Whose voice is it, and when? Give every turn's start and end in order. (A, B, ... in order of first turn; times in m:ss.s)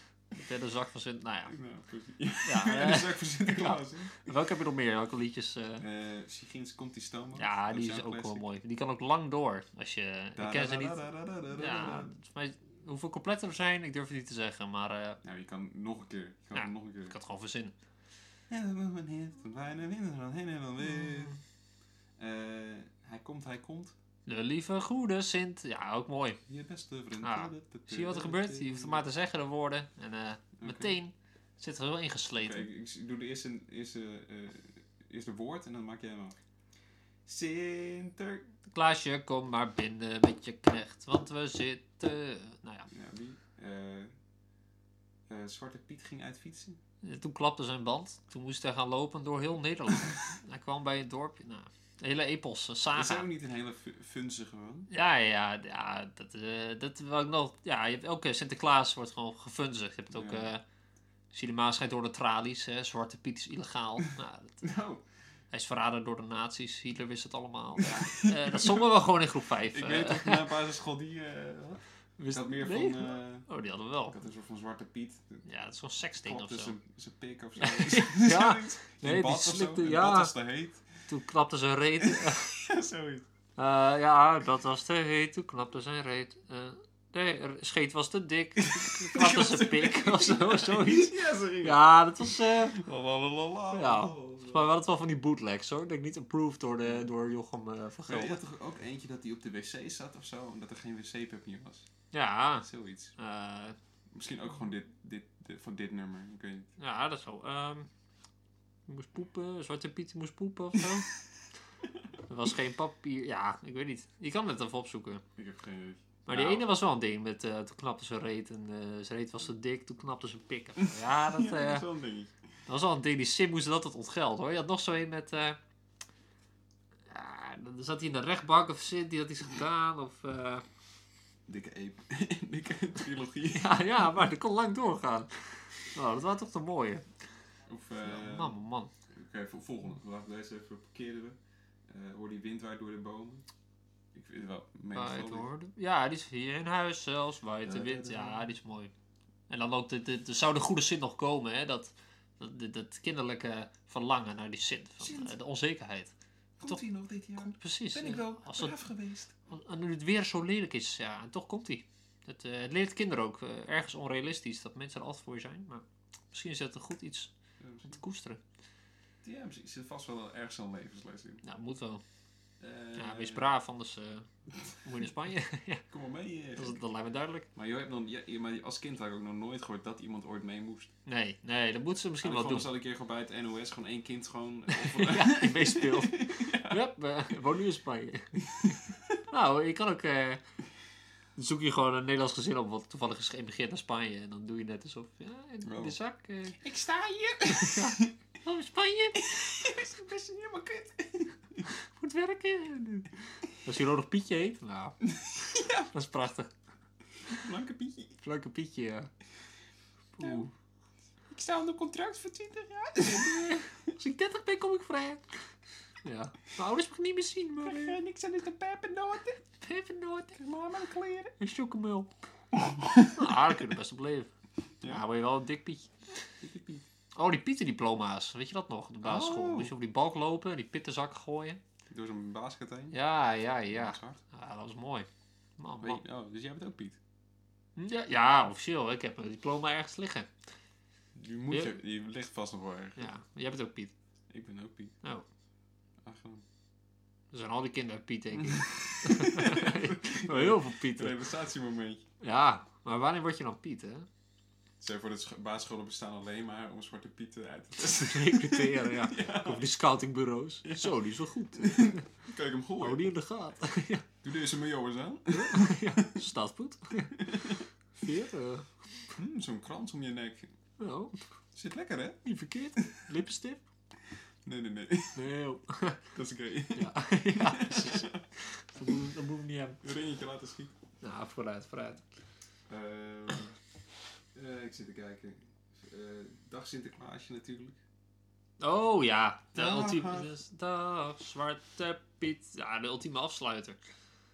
0:00.4-0:01.6 A
0:01.5-0:04.3 B
0:02.4-0:05.8 A
0:05.8-0:08.4 B
0:07.4-0:15.2 A
0:10.4-0:12.1 B
0:15.2-0:17.2 B
0:16.5-0:17.7 A
0:18.5-0:21.4 B
0:22.2-0:24.0 B
0:24.3-0:26.4 A
0:26.5-0:29.0 B
0:27.2-0:32.7 A
0:30.6-0:31.0 B
0:32.4-0:36.4 B
0:37.3-0:38.5 B
0:38.7-0:42.9 A
0:42.9-0:44.1 B
0:45.3-0:46.8 B
0:47.0-0:53.3 A
0:53.0-0:54.9 B
0:54.9-1:00.6 A
1:00.1-1:00.5 B
1:01.3-1:04.7 A
1:04.6-1:05.0 B
1:05.5-1:10.5 A
1:07.8-1:08.9 B
1:09.6-1:13.5 B
1:12.2-1:14.2 A
1:14.1-1:15.5 B
1:15.5-1:16.8 A
1:16.2-1:21.0 B
1:17.6-1:20.3 A
1:21.1-1:22.6 A
1:22.0-1:23.3 B
1:23.6-1:32.8 A
1:28.6-1:34.7 B
1:33.7-1:38.4 A
1:38.1-1:41.9 B
1:42.1-1:43.8 A
1:42.6-1:43.2 B
1:44.1-1:46.7 B
1:46.8-1:47.9 A
1:48.9-1:51.1 A
1:52.3-1:55.2 A
1:55.4-1:56.7 B
1:56.3-2:01.9 A
2:00.8-2:02.3 B
2:02.7-2:05.6 A
2:07.1-2:10.6 A
2:11.5-2:13.8 B
2:13.5-2:17.1 A
2:17.7-2:18.6 B
2:18.0-2:18.9 A
2:19.1-2:21.4 B
2:21.9-2:23.4 B
2:24.1-2:25.5 B
2:24.9-2:28.9 A
2:27.6-2:28.5 B
2:29.5-2:36.1 A
2:35.0-2:35.4 B
2:36.6-2:39.4 B
2:37.4-2:38.8 A
2:39.5-2:48.4 A
2:47.6-2:48.0 B
2:49.2-2:51.4 B
2:51.4-2:52.0 A
2:52.6-2:53.5 B
2:53.0-2:55.8 A
2:55.9-2:56.8 B
2:56.6-2:57.5 A
2:57.6-3:00.9 B
3:01.1-3:02.7 A
3:02.2-3:06.8 B
3:04.7-3:10.4 A
3:08.4-3:09.2 B
3:11.4-3:16.6 A
3:15.6-3:16.0 B
3:16.6-3:18.1 B
3:17.5-3:19.5 A
3:19.2-3:21.7 B
3:21.7-3:26.5 A
3:25.0-3:25.9 B
3:27.3-3:28.2 B
3:28.2-3:29.1 A
3:30.2-3:30.5 A
3:30.2-3:30.5 B
3:31.3-3:33.6 B
3:33.0-3:35.4 A
3:36.0-3:38.0 A
3:37.6-3:39.4 B
3:39.6-3:40.4 A
3:40.4-3:41.4 B
3:41.4-3:42.1 A
3:42.6-3:43.3 B
3:42.8-3:44.3 A
3:44.8-3:46.0 A
3:46.4-3:46.9 B
3:47.2-3:51.6 A
3:49.0-3:49.7 B
3:51.9-3:53.0 B
3:52.9-3:56.0 A
3:53.7-3:54.2 B
3:55.8-3:57.0 B
3:57.8-4:00.3 A
4:01.2-4:03.1 B
4:03.0-4:03.9 A
4:04.3-4:05.0 B
4:06.0-4:06.4 B
4:07.3-4:11.2 A
4:08.3-4:12.1 B
4:12.2-4:14.1 A
4:14.8-4:19.7 B
4:17.8-4:22.0 A
4:20.6-4:21.0 B
4:21.5-4:23.1 B
4:22.8-4:24.1 A
4:24.2-4:26.2 B
4:25.3-4:29.1 A
4:27.2-4:27.6 B
4:29.1-4:30.5 B
4:30.8-4:31.3 A
4:31.5-4:32.2 B
4:32.2-4:33.6 A
4:34.4-4:35.2 B
4:35.2-4:36.1 A
4:36.1-4:38.3 B
4:36.8-4:39.8 A
4:39.8-4:40.8 B
4:41.0-4:42.1 A
4:42.7-4:43.6 B
4:44.3-4:47.8 B
4:48.6-4:53.8 A
4:49.5-4:50.3 B